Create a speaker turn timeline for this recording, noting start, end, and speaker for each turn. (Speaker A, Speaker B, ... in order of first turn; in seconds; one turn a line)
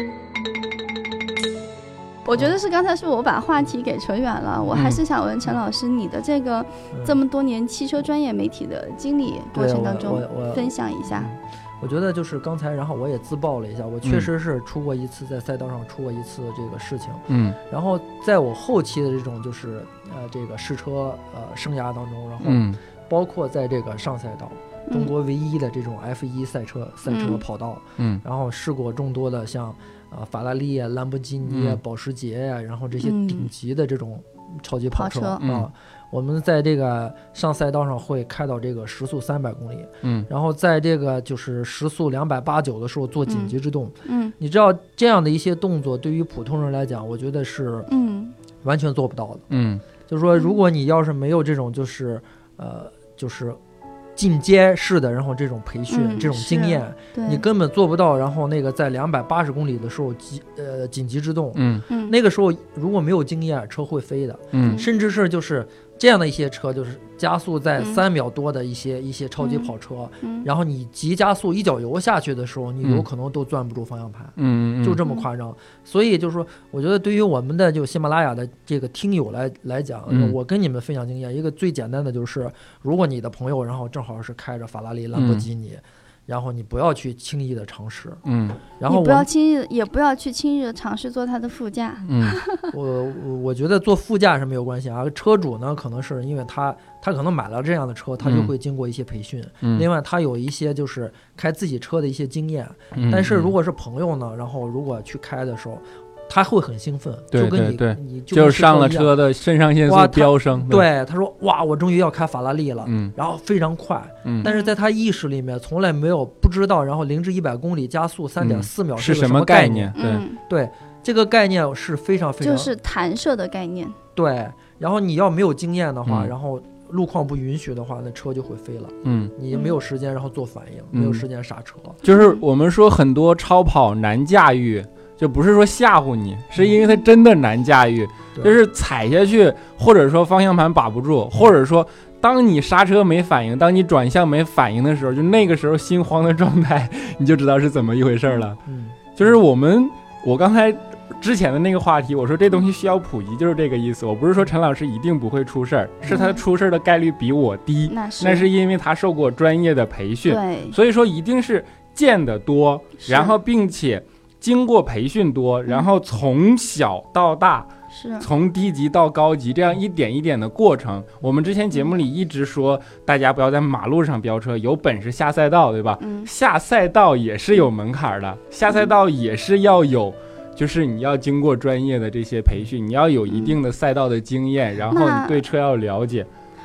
Speaker A: 2.2-11.3
Speaker B: 4.7-5.0
Speaker C: 6.9-7.2
Speaker C: 9.5-47.9
Speaker B: 17.3-17.6
Speaker B: 22.4-22.8
Speaker A: 24.9-25.1
Speaker A: 27.1-27.4
Speaker B: 31.5-31.8
Speaker A: 33.0-33.5
Speaker A: 34.9-35.4
Speaker B: 35.4-35.7
Speaker A: 43.3-43.5
Speaker A: 44.1-44.3
Speaker A: 47.9-48.4
Speaker C: 48.6-49.5
Speaker B: 49.5-49.8
Speaker C: 50.1-53.6
Speaker C: 54.2-89.3
Speaker A: 55.9-57.4
Speaker B: 61.6-61.8
Speaker A: 61.9-62.2
Speaker B: 64.5-64.8
Speaker A: 64.6-64.9
Speaker A: 67.8-68.0
Speaker A: 69.4-69.7
Speaker A: 70.2-70.5
Speaker B: 74.4-75.0
Speaker B: 80.1-80.3
Speaker B: 85.1-85.5
Speaker B: 88.3-88.6
Speaker A: 88.9-92.7
Speaker B: 92.0-92.4
Speaker C: 92.7-109.1
Speaker B: 98.2-98.5
Speaker B: 102.9-103.5
Speaker B: 107.3-110.9
Speaker C: 109.8-122.7
Speaker B: 112.8-113.1
Speaker A: 114.4-114.7
Speaker B: 118.4-120.2
Speaker A: 120.0-120.4
Speaker A: 122.4-124.0
Speaker C: 124.2-132.0
Speaker B: 126.1-126.3
Speaker B: 129.1-129.3
Speaker A: 129.5-129.8
Speaker B: 130.9-131.2
Speaker B: 132.0-148.6
Speaker A: 132.1-132.4
Speaker C: 148.7-149.3
Speaker B: 149.2-186.3
Speaker A: 156.1-156.4
Speaker A: 157.9-158.5
Speaker A: 160.3-160.8
Speaker A: 163.0-163.3
Speaker A: 167.9-168.3
Speaker A: 176.0-176.3
Speaker A: 183.3-183.6
Speaker A: 184.9-185.4